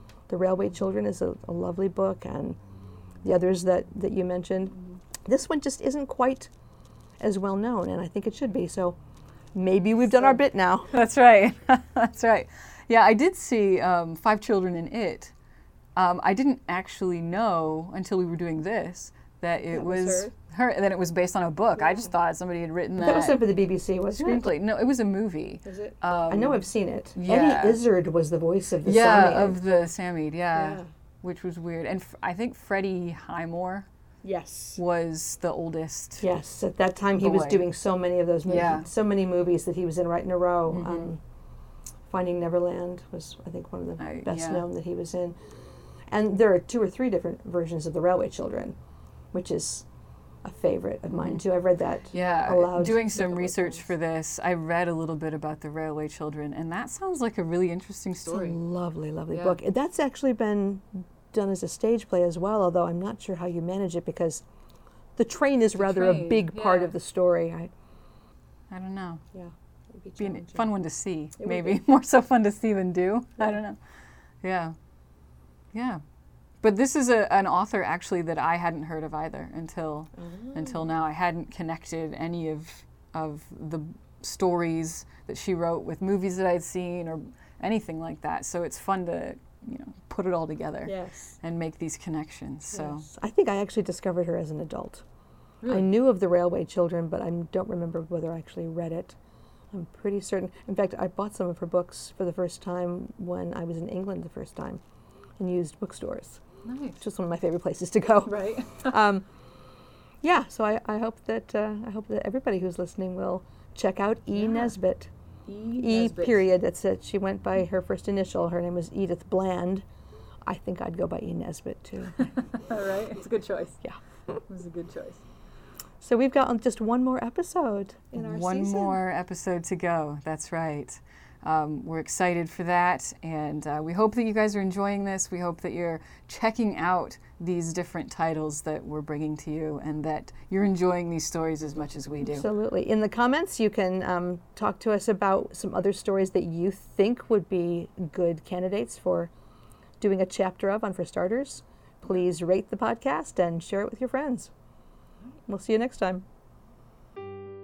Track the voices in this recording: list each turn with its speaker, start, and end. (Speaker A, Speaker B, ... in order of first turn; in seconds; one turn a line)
Speaker A: 0.3-2.6
Speaker A: 3.2-6.5
Speaker A: 7.2-9.0
Speaker A: 9.5-10.9
Speaker B: 10.9-15.3
Speaker B: 15.9-23.4
Speaker A: 19.7-20.3
Speaker A: 23.0-24.4
Speaker B: 24.1-27.8
Speaker A: 25.6-29.6
Speaker B: 28.8-33.9
Speaker A: 30.6-30.9
Speaker A: 34.2-34.8
Speaker B: 34.8-36.3
Speaker A: 36.2-41.2
Speaker B: 37.2-37.7
Speaker B: 38.4-38.9
Speaker B: 40.7-41.1
Speaker A: 42.1-45.4
Speaker B: 44.0-44.6
Speaker A: 46.1-48.8
Speaker A: 49.3-49.9
Speaker A: 50.4-53.9
Speaker B: 51.1-51.4
Speaker B: 52.1-58.6
Speaker A: 58.3-64.4
Speaker B: 59.3-59.6
Speaker A: 65.2-67.7
Speaker B: 65.8-66.9
Speaker B: 68.7-69.3
Speaker A: 69.3-70.7
Speaker B: 70.2-73.8
Speaker A: 71.4-71.8
Speaker B: 74.4-74.8
Speaker B: 75.7-76.0
Speaker B: 76.6-93.1
Speaker A: 80.2-80.8
Speaker A: 90.9-91.3
Speaker A: 92.7-95.0
Speaker A: 95.7-99.2
Speaker A: 99.7-104.8
Speaker A: 105.4-106.4
Speaker B: 106.6-107.0
Speaker A: 107.0-109.3
Speaker B: 108.2-109.0
Speaker A: 110.2-115.1
Speaker B: 114.3-114.8
Speaker B: 115.5-116.5
Speaker A: 115.8-119.9
Speaker A: 120.5-122.2
Speaker B: 122.2-123.8
Speaker A: 123.8-124.3
Speaker B: 124.4-125.2
Speaker A: 126.0-129.0
Speaker B: 128.1-142.5
Speaker A: 142.2-149.3
Speaker A: 150.0-154.5
Speaker A: 155.5-156.2